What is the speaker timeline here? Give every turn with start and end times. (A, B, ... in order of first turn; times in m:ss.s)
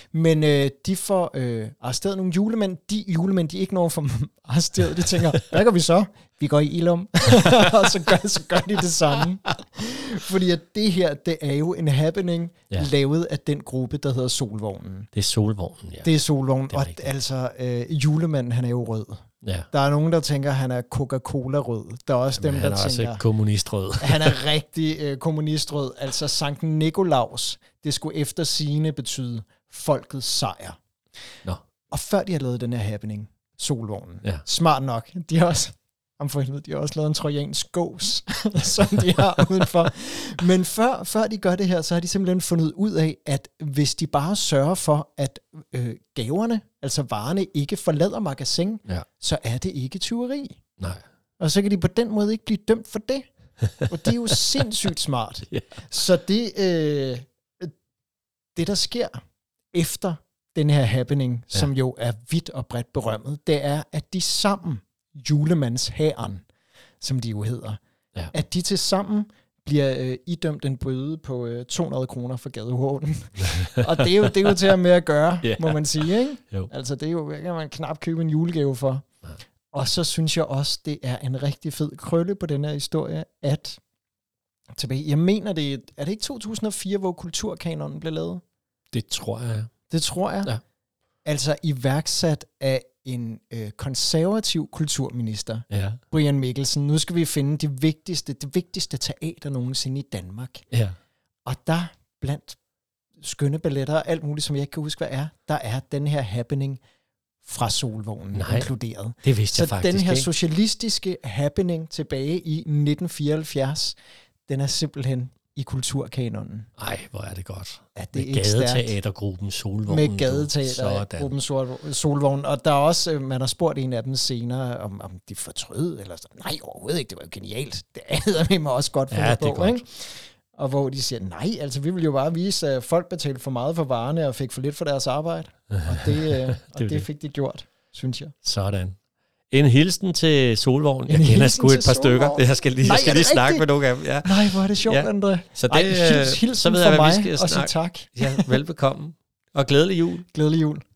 0:00.1-0:15.1 A
0:15.1-0:16.1 B
0:16.0-0:23.2 A
0:16.7-0:17.1 B
0:22.4-0:24.4 B
0:24.0-0:30.8 A
0:31.9-0:50.6 A
0:51.4-0:53.3 A
0:53.9-0:57.7 A
0:58.6-0:59.2 A
0:59.7-1:06.4 A
1:07.0-1:07.8 A
1:08.3-1:19.0 A
1:14.0-1:14.5 B
1:15.4-1:16.7 B
1:19.7-1:23.8 A
1:24.8-1:28.4 A
1:28.9-1:29.7 B
1:29.9-1:30.5 A
1:31.2-1:40.7 A
1:35.7-1:36.0 B
1:41.5-1:42.6 A
1:43.2-1:46.8 A
1:47.4-1:56.7 A
1:48.3-1:48.7 B
1:49.2-1:50.3 B
1:56.8-2:01.3 B
1:58.0-1:59.0 A
1:59.9-2:18.3 A
2:09.1-2:09.8 B
2:15.7-2:17.1 B
2:18.4-2:19.0 B
2:19.5-2:30.2 B
2:21.1-2:23.7 A
2:24.2-2:28.6 A
2:30.3-2:30.8 A